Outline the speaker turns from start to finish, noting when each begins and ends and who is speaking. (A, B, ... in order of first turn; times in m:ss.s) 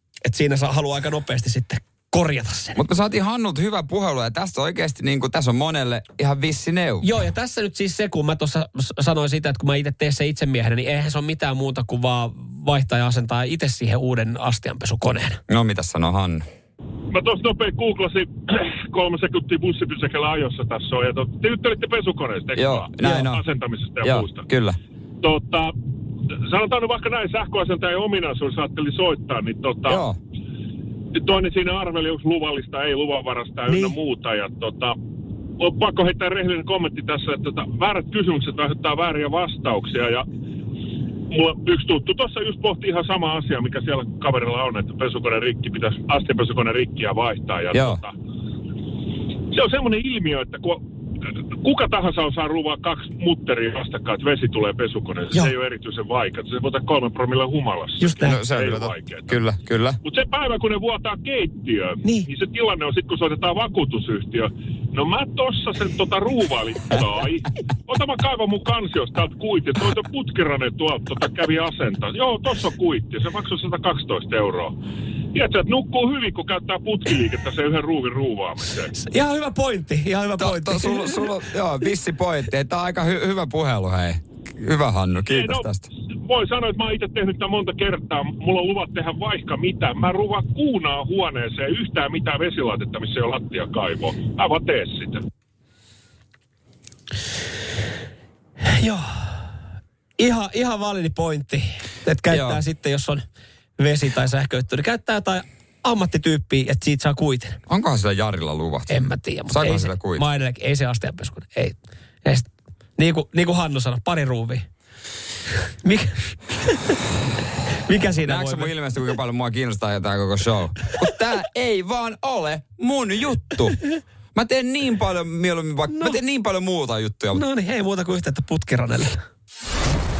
0:00.2-0:02.8 A
0:02.8-0:07.1 B
0:07.0-0:15.4 A
0:15.5-0:16.4 B
0:17.1-0:24.4 C
0:22.6-0:23.4 B
0:24.0-0:24.8 B
0:25.2-0:25.7 C
0:26.3-0:30.0 C
0:29.9-0:30.2 B
0:31.1-0:35.0 C
0:33.7-0:33.9 A
0:35.6-0:40.2 C
0:41.3-0:48.1 C
0:47.7-0:48.0 B
0:49.5-0:50.8 C
0:51.6-0:59.4 C
0:58.0-0:58.4 A
0:58.2-1:00.0 B
1:00.0-1:14.8 C
1:15.3-1:18.9 C
1:18.9-1:21.3 A
1:20.4-1:25.9 B
1:25.3-1:25.7 C
1:26.2-1:35.2 C
1:38.6-1:39.4 A
1:40.2-1:43.2 A
1:42.3-1:42.6 B
1:43.8-1:47.6 A
1:47.7-1:50.2 B
1:48.9-1:54.6 A
1:55.7-1:57.0 A
1:57.7-1:58.7 A
1:58.2-2:03.8 B
2:04.3-2:07.4 B
2:05.9-2:06.2 A
2:07.3-2:09.2 A